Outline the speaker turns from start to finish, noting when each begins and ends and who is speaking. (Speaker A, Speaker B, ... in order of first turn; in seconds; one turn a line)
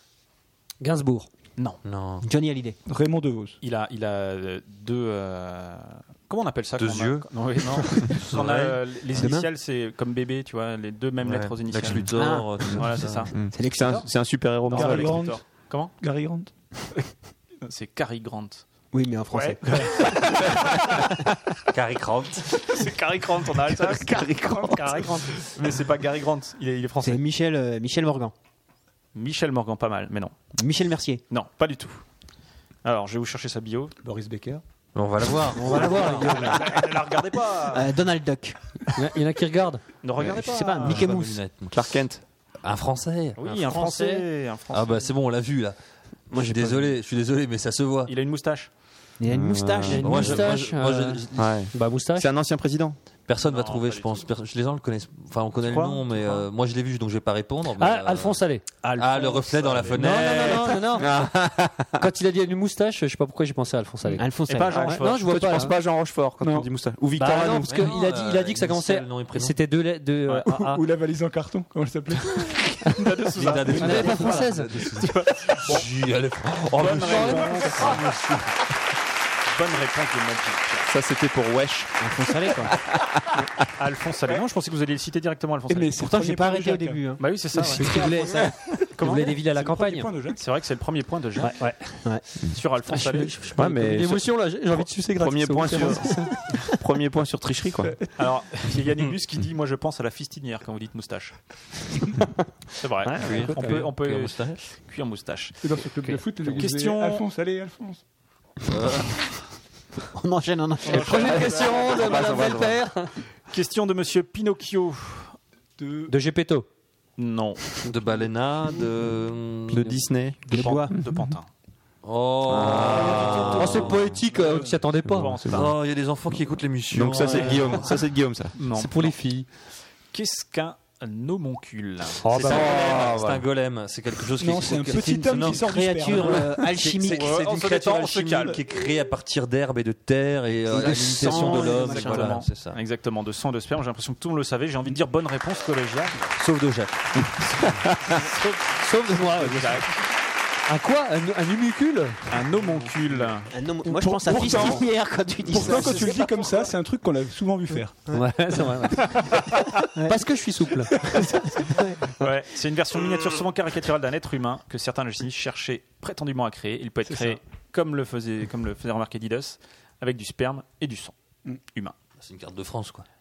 Speaker A: 0.8-1.3
Speaker B: 1.8-2.2
Speaker C: 2.2-2.8
Speaker D: 2.9-3.6
Speaker E: 3.6-12.1
Speaker B: 6.8-9.2
Speaker C: 9.1-9.5
Speaker B: 11.2-13.3
Speaker C: 12.1-14.1
Speaker E: 12.6-14.1
Speaker F: 13.3-15.2
Speaker E: 14.7-15.9
Speaker D: 14.7-15.4
Speaker D: 16.0-16.5
Speaker E: 17.6-18.6
Speaker C: 18.9-20.4
Speaker E: 19.3-20.8
Speaker B: 21.7-22.6
Speaker E: 22.5-27.2
Speaker C: 24.0-25.2
Speaker D: 24.5-25.0
Speaker C: 27.0-28.3
Speaker E: 29.1-30.3
Speaker C: 30.6-31.2
Speaker E: 31.3-32.0
Speaker E: 32.8-34.0
Speaker D: 34.0-34.6
Speaker B: 34.9-36.5
Speaker C: 35.6-36.8
Speaker A: 35.6-36.7
Speaker E: 35.8-38.0
Speaker C: 37.7-38.5
Speaker A: 38.9-39.8
Speaker E: 40.0-41.1
Speaker C: 40.2-41.4
Speaker B: 40.8-41.8
Speaker F: 41.7-42.2
Speaker B: 42.6-43.4
Speaker E: 43.4-45.1
Speaker A: 43.4-44.3
Speaker B: 44.7-45.8
Speaker B: 46.3-48.1
Speaker A: 46.3-46.9
Speaker E: 48.1-48.7
Speaker C: 49.2-50.2
Speaker F: 49.3-50.6
Speaker A: 49.9-52.3
Speaker B: 49.9-51.5
Speaker F: 51.4-53.0
Speaker B: 53.3-60.9
Speaker E: 53.4-54.3
Speaker E: 55.6-56.5
Speaker A: 57.7-58.9
Speaker E: 58.9-60.8
Speaker A: 59.9-61.2
Speaker F: 61.0-62.1
Speaker A: 62.0-65.8
Speaker C: 64.2-64.9
Speaker E: 64.5-65.2
Speaker F: 65.0-67.9
Speaker D: 66.4-66.7
Speaker A: 67.2-70.8
Speaker B: 67.7-69.7
Speaker D: 70.5-72.8
Speaker E: 72.9-75.9
Speaker B: 73.3-78.1
Speaker D: 73.4-74.1
Speaker A: 73.7-74.8
Speaker E: 76.8-78.1
Speaker A: 76.9-78.2
Speaker E: 79.5-80.9
Speaker F: 80.9-81.9
Speaker C: 82.0-82.7
Speaker E: 83.8-86.1
Speaker D: 85.7-87.0
Speaker C: 86.0-88.5
Speaker E: 87.2-89.4
Speaker A: 87.5-90.1
Speaker D: 89.3-90.4
Speaker E: 90.3-91.6
Speaker A: 91.4-92.2
Speaker E: 92.5-93.4
Speaker A: 92.8-96.4
Speaker F: 93.5-97.9
Speaker E: 98.2-101.3
Speaker E: 102.8-105.7
Speaker A: 103.0-103.9
Speaker B: 103.2-104.6
Speaker D: 105.6-108.0
Speaker A: 106.0-106.6
Speaker E: 106.5-107.2
Speaker B: 108.7-109.2
Speaker C: 110.1-111.6
Speaker A: 110.8-113.1
Speaker E: 110.9-112.2
Speaker F: 111.8-112.8
Speaker E: 113.5-115.3
Speaker D: 115.8-116.1
Speaker A: 116.1-116.7
Speaker E: 117.2-117.7
Speaker B: 117.8-119.9
Speaker F: 119.7-120.4
Speaker C: 120.5-120.9
Speaker E: 120.5-121.5
Speaker B: 122.0-124.2
Speaker F: 122.5-123.9
Speaker A: 122.6-125.5
Speaker E: 123.1-123.5
Speaker E: 124.3-125.7
Speaker F: 125.1-125.7
Speaker B: 125.4-127.9
Speaker F: 126.9-128.5
Speaker A: 127.2-127.8
Speaker E: 128.6-129.2
Speaker A: 128.6-129.5
Speaker E: 130.1-132.9
Speaker A: 132.2-133.2
Speaker B: 132.3-142.8
Speaker F: 132.4-133.4
Speaker D: 134.4-136.7
Speaker C: 135.3-137.4
Speaker E: 137.0-138.6
Speaker C: 140.7-142.4
Speaker E: 140.9-146.3
Speaker B: 146.4-147.4
Speaker A: 148.7-149.9
Speaker E: 149.3-149.9
Speaker A: 150.7-152.3
Speaker E: 152.3-153.5
Speaker C: 153.5-156.4
Speaker D: 154.0-154.9
Speaker A: 154.3-154.8
Speaker D: 155.5-158.1
Speaker A: 158.1-161.1
Speaker D: 161.1-161.5
Speaker C: 161.7-162.0
Speaker E: 162.2-171.1
Speaker D: 167.1-167.4
Speaker B: 172.2-173.1